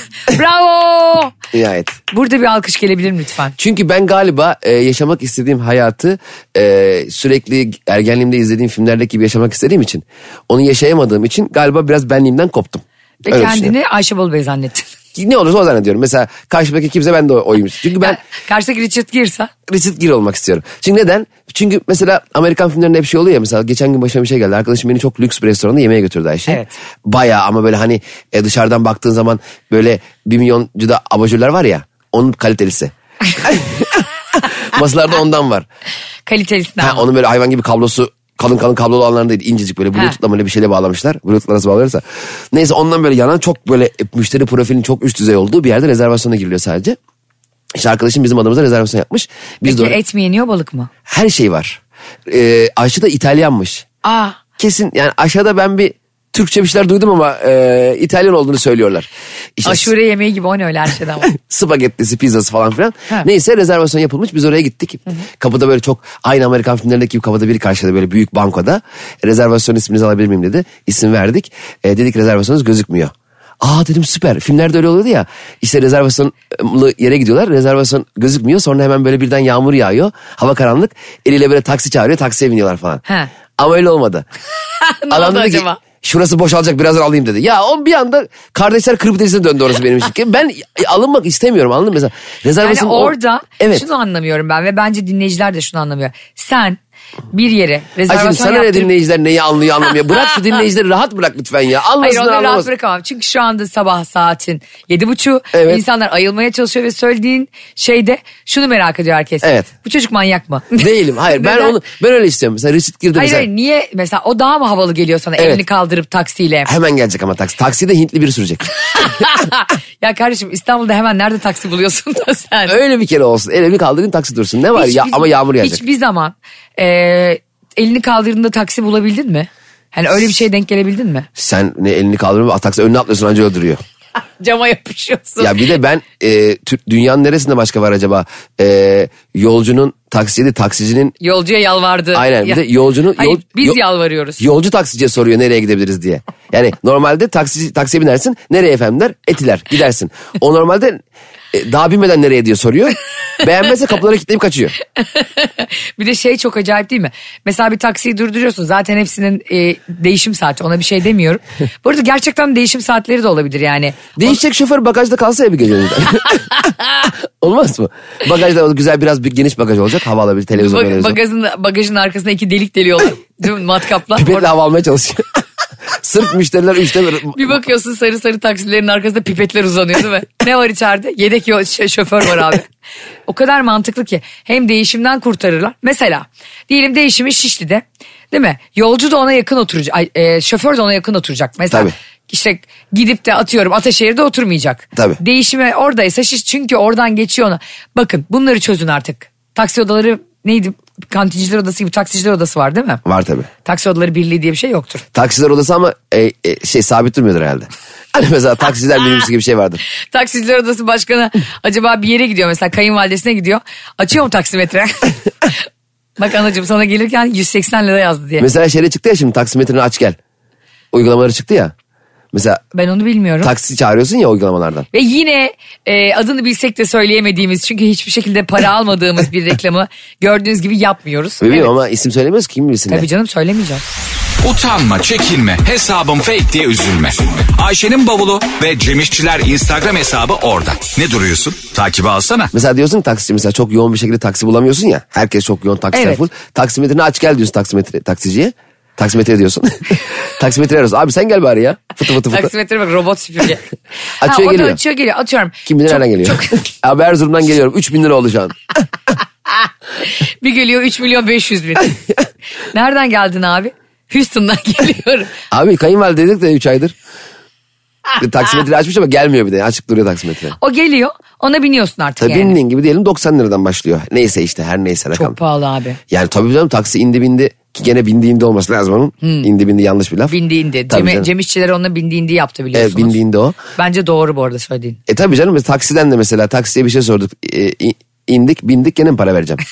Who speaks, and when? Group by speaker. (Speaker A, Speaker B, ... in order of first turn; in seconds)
Speaker A: 0.2-1.4, 2.1-3.6, 13.2-14.9, 18.0-19.5, 26.5-26.8, 36.3-37.1, 49.6-50.9, 54.0-54.4, 59.6-61.3, 84.8-85.8, 92.6-96.8, 97.3-98.9, 102.0-111.8, 113.2-116.7, 119.0-122.8, 124.7-131.3, 134.4-135.6, 141.2-142.6, 143.2-144.4, 155.0-164.4, 170.6-174.5, 177.3-182.7, 183.3-203.0, 203.7-205.0, 210.1-215.6, 216.2-218.5, 222.7-223.5, 224.9-231.7, 232.9-233.8, 245.9-246.2, 252.3-253.6, 254.2-256.6, 260.1-262.0, 262.7-265.3, 270.6-272.6, 275.1-276.0, 279.2-279.5, 280.3-283.2, 283.8-285.0
Speaker B: 1.5-2.0, 3.6-13.7, 15.2-18.2, 19.7-35.7, 36.8-47.0, 47.7-50.0, 51.1-53.9, 54.6-59.9, 61.2-83.0, 83.6-84.3, 85.1-93.8, 98.1-102.7, 105.5-105.8, 109.4-109.7, 110.8-113.5, 116.7-119.1, 122.7-125.8, 131.4-133.8, 135.4-141.1, 142.1-143.8, 144.4-151.0, 151.5-154.8, 164.2-171.2, 174.1-175.3, 175.9-177.6, 203.1-203.5, 205.1-209.8, 218.4-220.2, 220.9-221.7, 222.3-222.6, 223.4-224.9, 231.4-233.1, 242.5-252.5, 254.2-254.8, 255.7-258.6, 265.5-266.9, 268.2-270.6, 272.2-275.4, 276.1-280.3, 280.9-281.3, 282.7-283.6, 285.1-289.6
Speaker C: 234.4-242.5